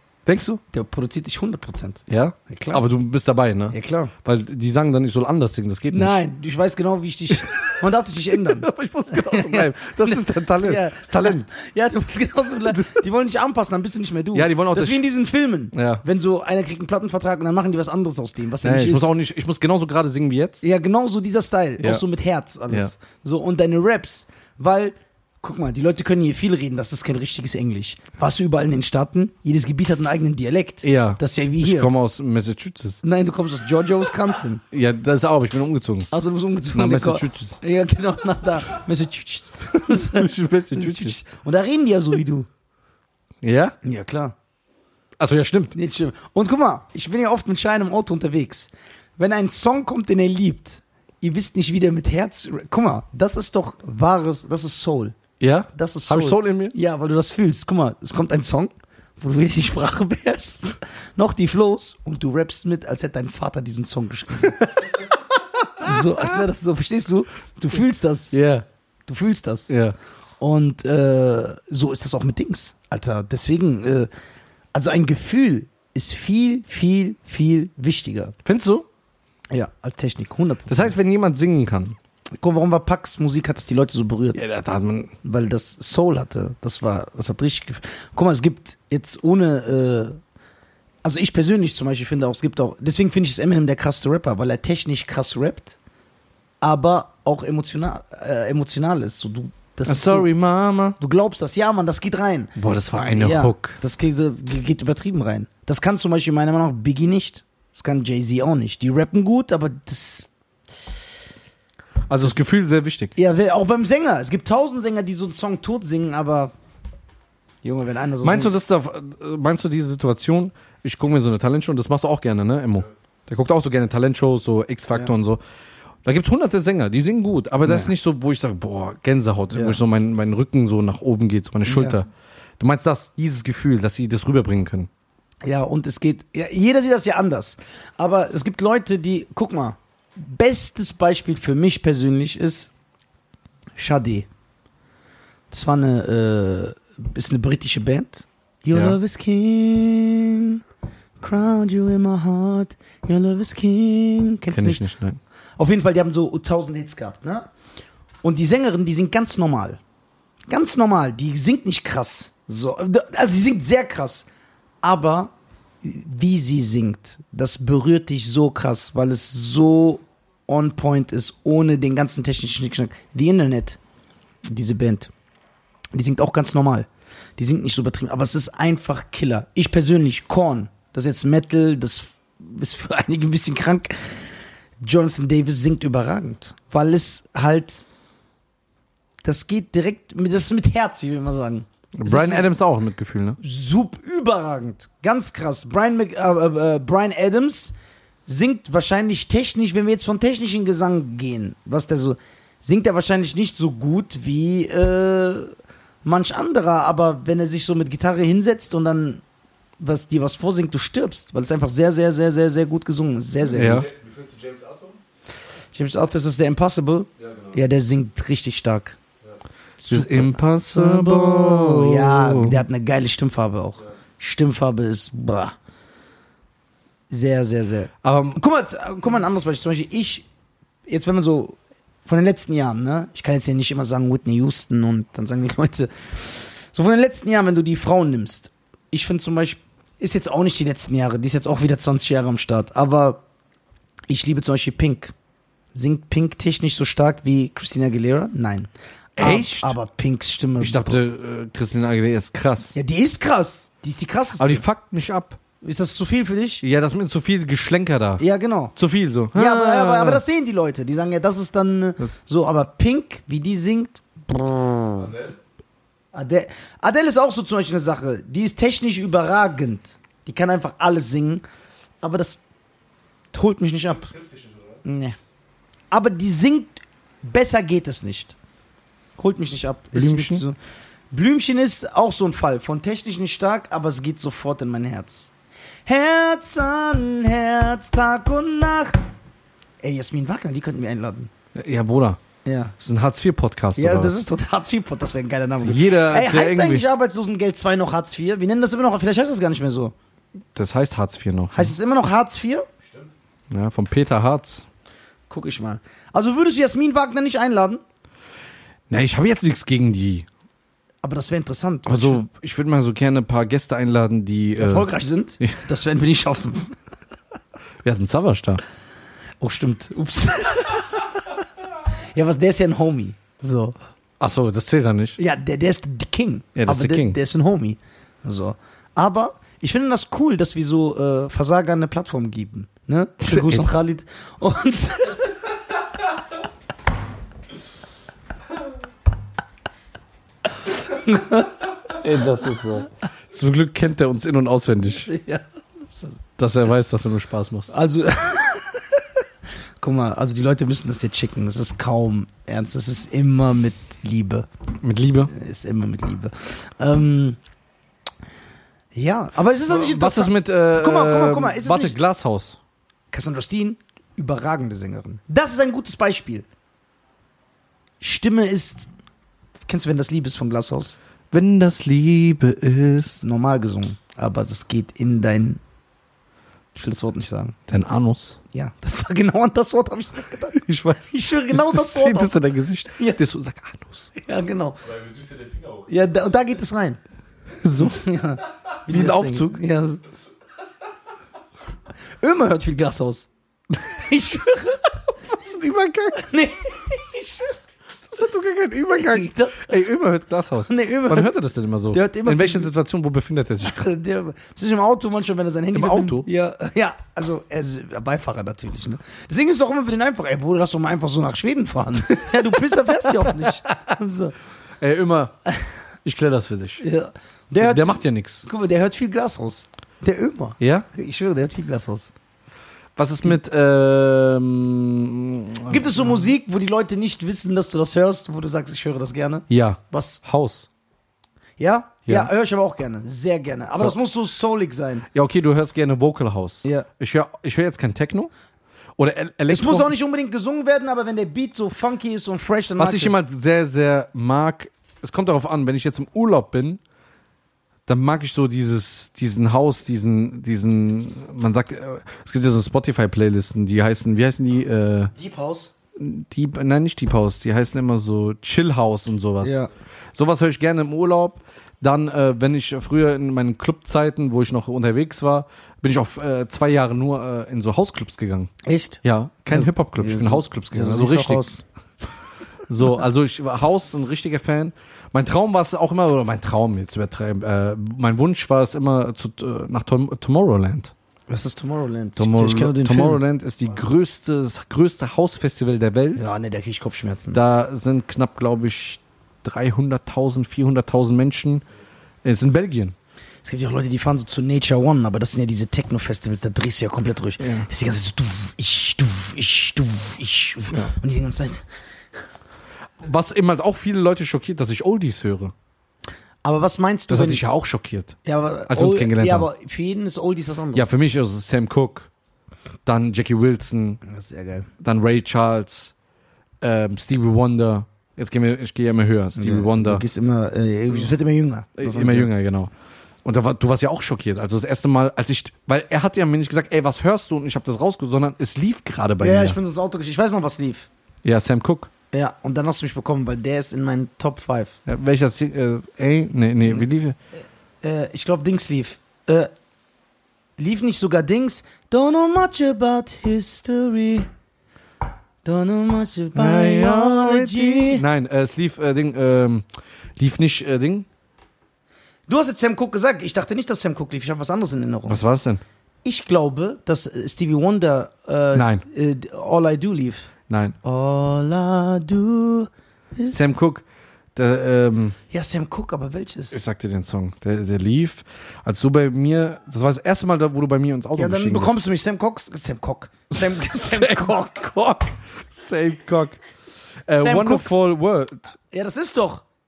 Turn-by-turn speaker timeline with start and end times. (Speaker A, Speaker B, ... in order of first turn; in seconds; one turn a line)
Speaker A: 0.2-0.6
Speaker B: 0.7-2.8
Speaker A: 2.1-6.2
Speaker B: 3.7-4.1
Speaker B: 5.9-19.1
Speaker A: 7.3-7.7
Speaker A: 8.4-11.5
Speaker A: 12.7-13.0
Speaker A: 14.3-15.0
Speaker A: 15.7-16.0
Speaker A: 18.6-20.6
Speaker B: 20.6-31.9
Speaker A: 30.8-33.0
Speaker B: 33.0-34.6
Speaker A: 34.7-36.1
Speaker B: 36.1-42.5
Speaker A: 36.7-37.6
Speaker A: 39.7-41.2
Speaker A: 43.4-43.8
Speaker B: 43.8-44.3
Speaker A: 45.2-45.8
Speaker B: 45.7-55.1
Speaker A: 55.4-56.7
Speaker B: 55.7-65.0
Speaker B: 65.8-68.4
Speaker A: 65.8-66.2
Speaker A: 68.3-68.7
Speaker B: 69.1-69.7
Speaker A: 69.7-70.0
Speaker B: 70.4-74.1
Speaker B: 74.7-78.3
Speaker A: 78.4-78.8
Speaker B: 79.5-80.9
Speaker A: 80.7-82.0
Speaker B: 82.4-84.4
Speaker A: 84.3-85.1
Speaker B: 85.2-90.2
Speaker B: 91.0-95.8
Speaker B: 96.6-100.3
Speaker A: 99.8-101.0
Speaker B: 101.0-110.3
Speaker A: 102.5-103.8
Speaker A: 112.1-113.1
Speaker B: 113.2-116.5
Speaker B: 117.6-118.5
Speaker A: 118.2-125.4
Speaker A: 126.0-132.1
Speaker B: 127.6-127.9
Speaker B: 129.5-129.8
Speaker B: 131.6-132.0
Speaker A: 132.6-134.9
Speaker B: 135.4-142.7
Speaker B: 143.8-144.3
Speaker B: 145.5-150.6
Speaker B: 151.2-154.8
Speaker A: 154.5-155.2
Speaker B: 155.6-157.5
Speaker B: 158.2-159.8
Speaker B: 160.5-164.3
Speaker B: 164.8-173.8
Speaker B: 174.5-175.1
Speaker B: 175.9-184.1
Speaker B: 184.8-187.8
Speaker B: 189.2-192.5
Speaker A: 191.9-193.4
Speaker B: 193.4-197.7
Speaker B: 198.3-209.2
Speaker B: 209.8-213.9
Speaker A: 213.5-213.9
Speaker C: 213.6-215.0
Speaker B: 215.7-219.0
Speaker C: 217.2-217.5
Speaker B: 219.8-225.5
Speaker A: 219.8-222.6
Speaker B: 227.1-230.2
Speaker A: 228.0-228.4
Speaker B: 230.9-243.2
Speaker B: 244.1-245.1
Speaker B: 245.7-251.0
Speaker A: 249.2-249.7
Speaker A: 250.6-252.8
Speaker B: 252.7-254.6
Speaker A: 254.4-255.4
Speaker B: 255.6-256.6
Speaker A: 256.6-258.2
Speaker B: 258.2-258.7
Speaker A: 258.8-260.2
Speaker B: 259.3-265.1
Speaker C: 265.0-265.3
Speaker B: 266.1-271.4
Speaker B: 272.0-272.4
Speaker B: 273.3-274.1
Speaker C: 273.9-274.8
Speaker B: 274.8-275.1
Speaker B: 275.9-278.3
Speaker B: 279.2-280.5
Speaker A: 279.9-280.4
Speaker B: 281.1-285.3
Speaker B: 285.9-289.1
Speaker B: 289.8-291.3
Speaker A: 291.5-292.2
Speaker B: 292.4-292.7
Speaker A: 292.8-294.2
Speaker B: 293.8-299.9
Speaker A: 295.6-296.8
Speaker A: 300.5-301.7
Speaker B: 301.5-302.6
Speaker A: 303.5-304.6
Speaker B: 305.3-307.8
Speaker A: 308.9-310.3
Speaker B: 311.0-312.2
Speaker A: 311.9-314.9
Speaker B: 314.6-316.7
Speaker A: 317.8-318.6
Speaker B: 319.4-321.0
Speaker B: 322.1-323.7
Speaker A: 324.2-325.2
Speaker B: 325.2-335.2
Speaker A: 326.6-327.2
Speaker A: 333.2-333.8
Speaker B: 340.7-341.6
Speaker A: 341.9-345.1
Speaker B: 345.0-346.2
Speaker A: 346.4-347.7
Speaker B: 347.7-349.0
Speaker B: 349.8-354.5
Speaker A: 354.8-355.3
Speaker B: 355.3-357.4
Speaker B: 358.9-361.9
Speaker A: 359.7-362.6
Speaker B: 363.1-366.4
Speaker B: 368.0-368.9
Speaker B: 369.7-371.0
Speaker A: 371.3-373.2
Speaker B: 373.2-375.6
Speaker B: 376.7-377.6
Speaker A: 377.7-378.4
Speaker B: 378.5-382.4
Speaker A: 380.6-384.1
Speaker B: 384.1-384.8
Speaker C: 384.8-385.9
Speaker B: 385.9-387.0
Speaker A: 387.6-388.1
Speaker B: 387.8-390.0
Speaker A: 388.9-389.6
Speaker B: 392.2-395.1
Speaker A: 395.3-396.2
Speaker B: 396.1-397.6
Speaker A: 398.1-403.9
Speaker B: 398.9-399.7
Speaker B: 400.7-401.3
Speaker B: 401.9-402.7
Speaker B: 403.6-414.4
Speaker A: 405.7-406.3
Speaker A: 412.1-413.5
Speaker A: 414.8-415.4
Speaker A: 416.0-416.8
Speaker B: 416.8-422.1
Speaker A: 417.6-418.4
Speaker A: 420.6-420.9
Speaker A: 422.9-426.2
Speaker B: 425.7-430.2
Speaker A: 429.5-430.7
Speaker B: 431.6-435.1
Speaker A: 432.1-432.3
Speaker A: 435.1-438.3
Speaker A: 439.0-439.9
Speaker B: 439.5-443.1
Speaker A: 442.8-446.8
Speaker A: 447.9-455.1
Speaker B: 455.1-455.7
Speaker A: 455.9-471.5
Speaker B: 459.4-459.7
Speaker B: 468.6-471.6
Speaker A: 472.7-480.9
Speaker B: 481.3-483.2
Speaker A: 482.2-486.3
Speaker B: 486.1-487.4
Speaker A: 487.3-491.6
Speaker A: 492.2-492.9
Speaker B: 493.4-501.6
Speaker A: 497.4-497.7
Speaker A: 503.0-505.5
Speaker B: 506.4-507.4
Speaker A: 507.1-508.2
Speaker B: 508.2-510.9
Speaker A: 508.7-509.5
Speaker A: 510.7-512.1
Speaker A: 512.8-514.0
Speaker B: 514.0-514.7
Speaker A: 514.8-515.9
Speaker A: 516.6-520.0
Speaker B: 519.4-522.3
Speaker A: 521.8-522.7
Speaker A: 523.2-529.6
Speaker B: 529.2-530.9
Speaker A: 531.2-531.9
Speaker B: 532.1-534.8
Speaker A: 534.9-537.1
Speaker B: 537.8-539.5
Speaker B: 540.6-544.3
Speaker B: 545.4-548.0
Speaker A: 546.3-549.6
Speaker A: 550.2-551.0
Speaker B: 552.3-555.2
Speaker A: 555.1-555.6
Speaker B: 556.0-560.3
Speaker A: 558.5-558.8
Speaker A: 560.5-560.8
Speaker B: 560.8-563.3
Speaker A: 563.3-563.8
Speaker A: 564.3-565.2
Speaker B: 565.3-566.5
Speaker A: 566.5-571.8
Speaker B: 571.1-575.1
Speaker A: 573.4-574.3
Speaker A: 575.5-576.4
Speaker A: 577.1-578.5
Speaker B: 577.2-577.8
Speaker B: 578.7-579.4